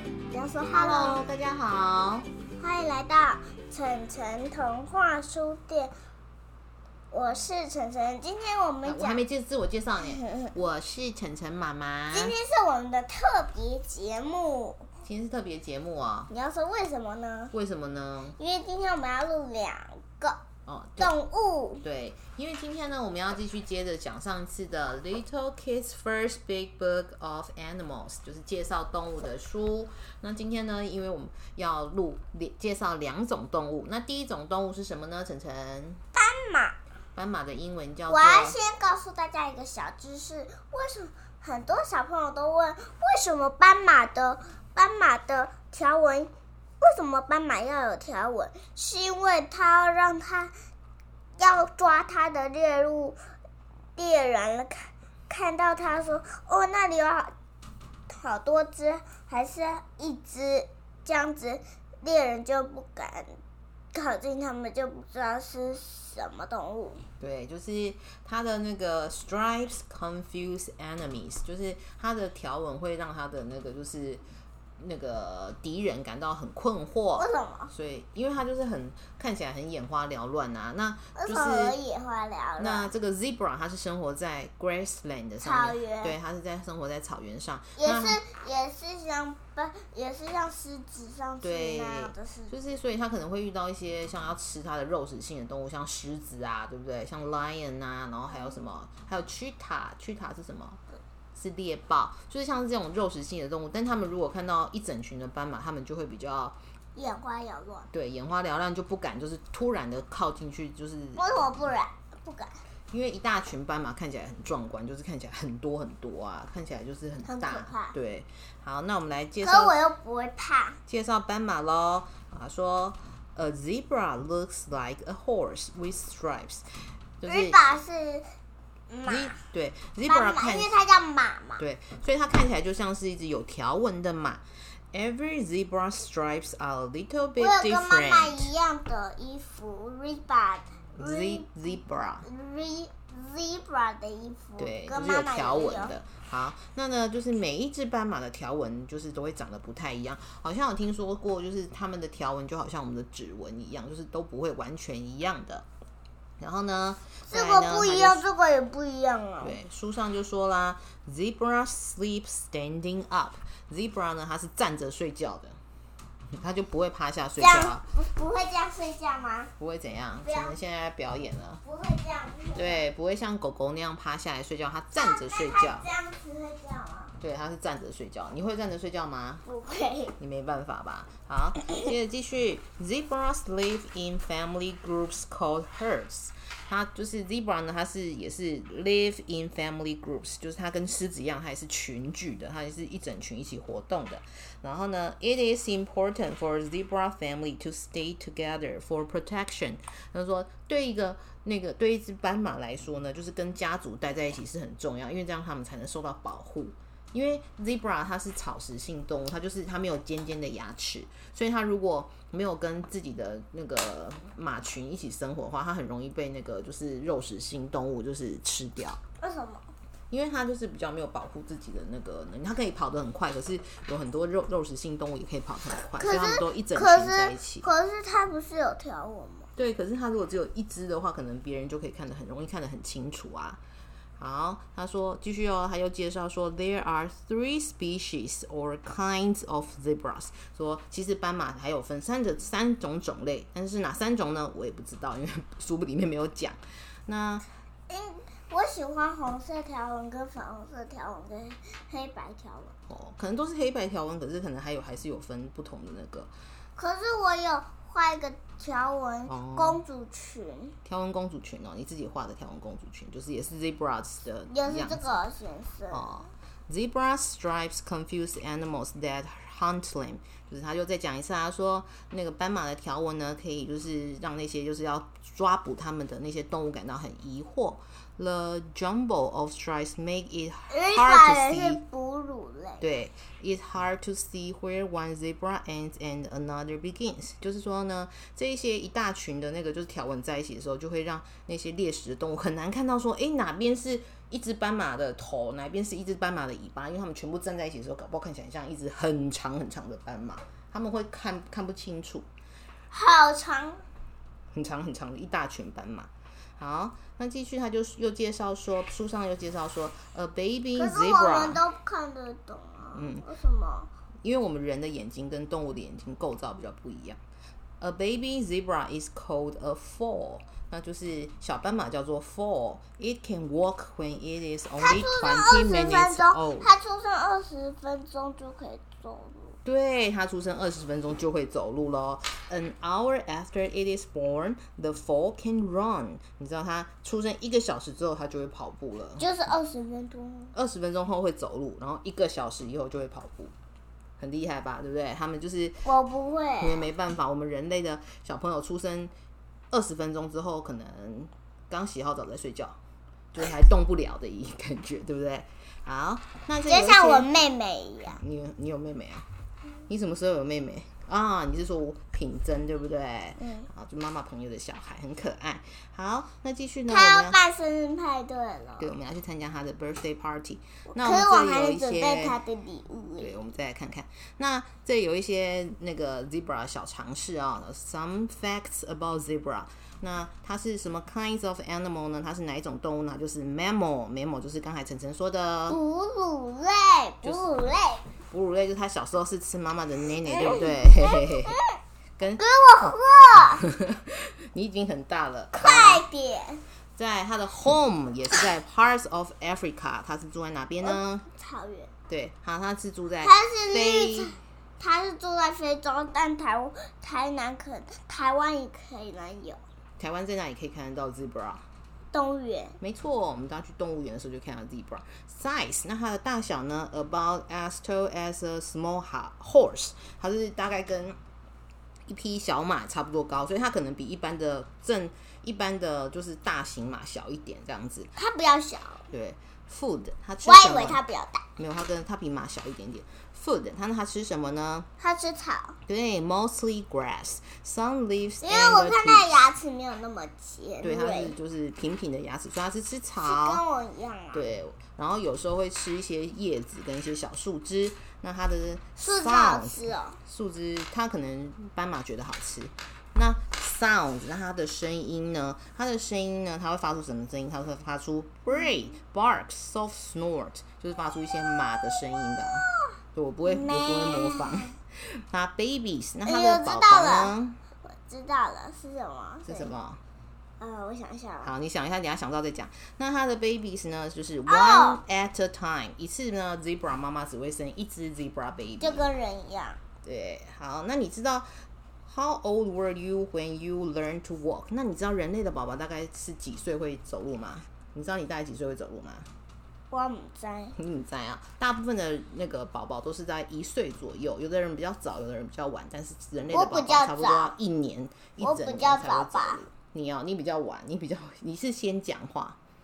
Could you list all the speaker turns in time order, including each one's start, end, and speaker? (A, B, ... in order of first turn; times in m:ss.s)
0:00.3-0:01.2 A
0:00.7-0:02.3 B
0:02.6-0:05.9 A
0:07.1-0:09.2 A
0:08.8-0:12.4 B
0:10.0-0:10.5 A
0:12.1-0:14.9 A
0:15.0-0:16.3 B
0:16.3-0:17.5 A
0:17.5-0:18.4 B
0:18.4-0:20.4 A
0:20.6-0:21.2 B
0:21.0-0:21.8 A
0:21.8-0:36.0 B
0:36.1-0:36.8 A
0:37.1-0:38.6 B
0:38.1-0:50.5 A
0:51.4-0:53.2 A
0:54.0-0:57.3 A
0:58.1-1:03.4 A
1:03.9-1:07.0 A
1:07.2-1:14.2 B
1:14.8-1:21.8 B
1:17.2-1:17.7 A
1:21.1-1:22.9 A
1:22.6-1:28.2 B
1:25.4-1:26.2 A
1:27.8-1:32.5 A
1:31.4-1:40.8 B
1:41.3-1:46.6 B
1:46.9-1:47.9 A
1:47.9-1:51.2 B
1:51.2-1:52.6 A
1:52.9-1:59.8 B
1:57.2-1:58.0 A
1:59.4-2:00.8 A
2:00.9-2:06.6 B
2:07.2-2:07.7 B
2:07.2-2:08.2 A
2:08.9-2:09.4 A
2:09.0-2:10.7 B
2:10.1-2:11.6 A
2:11.6-2:18.5 B
2:17.4-2:21.5 A
2:21.0-2:22.2 B
2:22.2-2:26.0 A
2:24.6-2:35.6 B
2:36.4-2:38.2 B
2:37.3-2:39.6 A
2:39.4-2:45.6 B
2:46.3-2:47.8 B
2:47.4-2:49.5 A
2:49.6-2:51.6 B
2:50.2-2:50.5 A
2:51.6-2:52.8 A
2:52.5-2:55.9 B
2:54.9-2:57.2 A
2:57.2-2:59.4 B
2:59.4-3:00.2 A
3:00.2-3:39.0 B
3:39.2-3:39.6 A
3:40.1-3:47.7 B
3:46.0-3:49.5 A
3:49.6-3:53.6 B
3:54.2-4:07.4 B
4:07.9-4:12.7 A
4:12.9-4:16.3 B
4:16.8-4:20.8 A
4:19.3-4:19.8 B
4:20.8-4:25.0 B
4:24.5-4:26.2 A
4:25.9-4:41.8 B
4:40.7-4:42.9 A
4:42.8-5:02.3 B
5:02.9-5:03.8 A
5:04.5-5:11.6 B
5:10.7-5:13.9 A
5:12.9-5:13.2 B
5:14.2-5:17.2 B
5:17.8-5:26.7 B
5:24.8-5:29.6 A
5:29.6-5:39.2 B
5:39.2-5:40.5 A
5:40.5-5:43.5 B
5:44.2-5:45.9 B
5:45.8-5:46.9 A
5:46.6-5:49.1 B
5:49.7-5:52.8 B
5:53.3-5:57.4 B
5:56.7-5:58.2 A
5:58.1-5:59.2 B
5:59.9-6:07.4 B
6:03.4-6:03.7 A
6:06.9-6:08.9 A
6:08.8-6:12.4 B
6:10.9-6:13.4 A
6:13.2-6:25.8 B
6:25.7-6:28.0 A
6:28.3-6:31.6 B
6:30.2-6:31.8 A
6:32.2-6:32.4 B
6:32.4-6:33.6 A
6:33.6-6:36.0 B
6:35.5-6:36.6 A
6:37.0-6:41.2 B
6:40.8-6:41.9 A
6:42.1-6:44.3 B
6:43.2-6:49.6 A
6:50.0-6:51.6 B
6:52.1-6:52.8 A
6:52.8-7:01.2 B
7:02.1-7:08.1 B
7:08.2-7:09.0 A
7:09.1-7:11.0 B
7:10.4-7:11.4 A
7:11.6-7:14.9 B
7:15.0-7:15.8 A
7:15.9-7:19.4 B
7:18.4-7:21.3 A
7:20.8-7:23.6 B
7:23.2-7:24.4 A
7:24.3-7:47.6 B
7:29.0-7:30.2 A
7:41.8-7:42.8 A
7:43.4-7:44.7 A
7:46.2-7:49.7 A
7:49.4-7:50.0 B
7:50.6-7:51.5 A
7:51.4-7:59.1 B
7:54.5-7:55.0 A
7:58.8-7:59.8 A
8:00.0-8:01.5 B
8:02.0-8:09.3 B
8:09.9-8:10.7 A
8:10.8-8:22.6 B
8:16.5-8:17.5 A
8:18.4-8:19.6 A